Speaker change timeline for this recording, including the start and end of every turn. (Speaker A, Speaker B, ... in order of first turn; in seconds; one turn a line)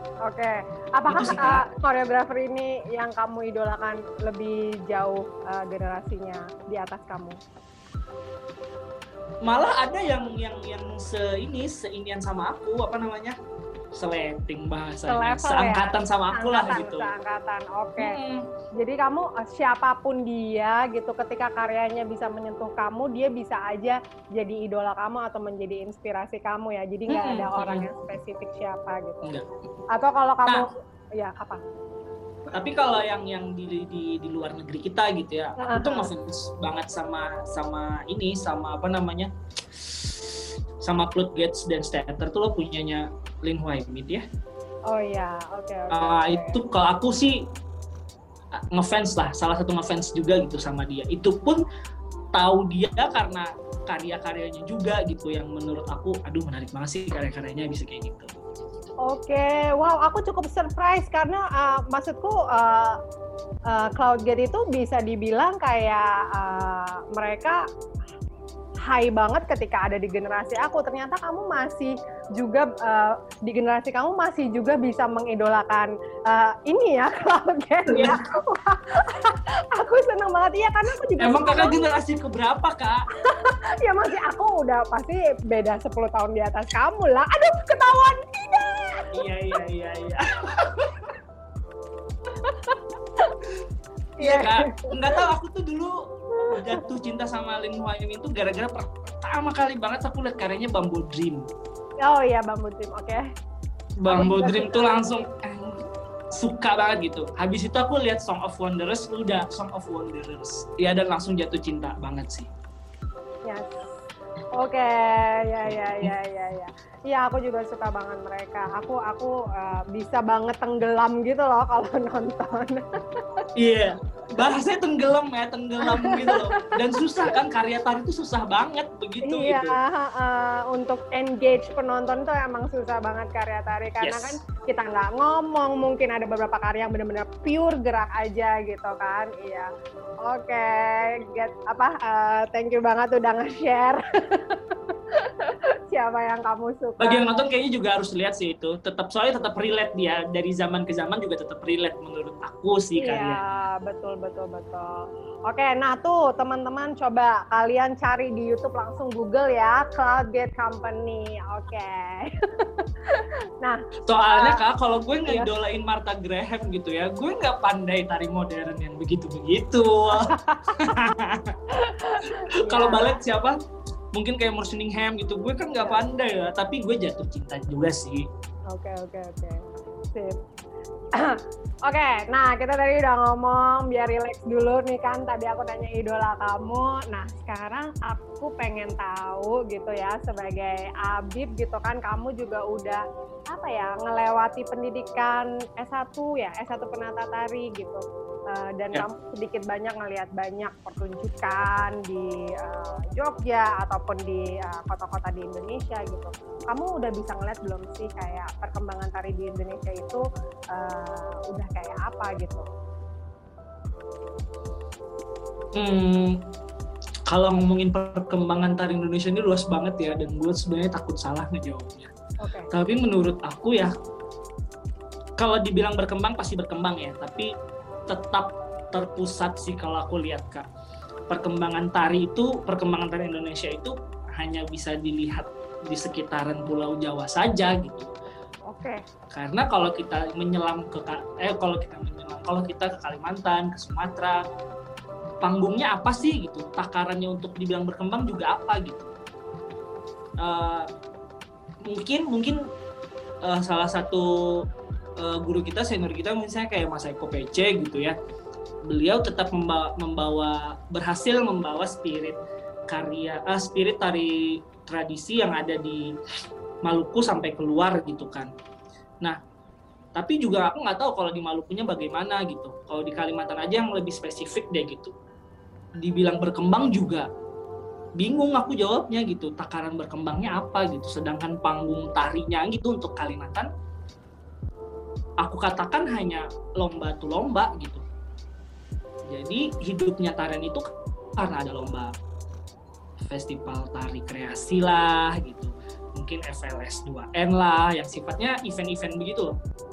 Speaker A: 0.2-7.4
Speaker B: 1.1-1.6
Speaker B: 9.4-13.3
Speaker B: 13.9-17.1
Speaker A: 15.1-18.2
Speaker B: 18.0-18.4
Speaker A: 18.8-29.3
Speaker B: 27.1-27.9
Speaker A: 29.9-31.6
Speaker B: 32.5-44.2
Speaker A: 35.6-36.1
Speaker A: 44.9-46.6
Speaker B: 45.9-47.4
Speaker B: 48.5-51.6
Speaker B: 52.3-58.4
Speaker A: 59.0-63.0
Speaker A: 63.7-67.6
Speaker A: 68.9-81.8
Speaker B: 77.9-78.2
Speaker B: 81.2-83.0
Speaker A: 83.2-89.1
Speaker B: 89.1-91.1
Speaker A: 92.4-93.4
Speaker A: 94.2-95.2
Speaker B: 94.2-101.5
Speaker A: 96.3-96.8
Speaker A: 102.0-103.2
Speaker B: 104.0-112.5
Speaker A: 104.1-105.0
Speaker A: 113.5-113.8
Speaker A: 114.5-122.8
Speaker B: 115.6-116.1
Speaker B: 123.5-129.8
Speaker A: 125.8-127.3
Speaker A: 129.2-139.7
Speaker B: 134.0-134.4
Speaker A: 140.2-147.4
Speaker B: 147.0-153.7
Speaker A: 153.0-164.6
Speaker B: 164.1-171.6
Speaker A: 170.1-171.1
Speaker A: 171.7-173.2
Speaker B: 172.6-173.6
Speaker B: 174.1-178.3
Speaker A: 178.7-180.4
Speaker A: 181.2-193.0
Speaker A: 193.5-212.7
Speaker B: 215.7-216.4
Speaker B: 217.3-222.1
Speaker A: 222.4-222.7
Speaker B: 222.7-223.9
Speaker B: 225.4-227.5
Speaker B: 228.1-230.6
Speaker B: 231.3-238.1
Speaker A: 238.7-239.0
Speaker B: 239.3-244.4
Speaker B: 245.4-249.1
Speaker B: 250.4-250.9
Speaker B: 251.8-252.6
Speaker B: 253.4-258.1
Speaker B: 258.9-266.2
Speaker B: 266.8-268.5
Speaker B: 270.1-275.1
Speaker B: 276.0-277.3
Speaker B: 278.2-283.7
Speaker B: 285.4-288.0
Speaker B: 289.3-292.1
Speaker B: 293.2-299.6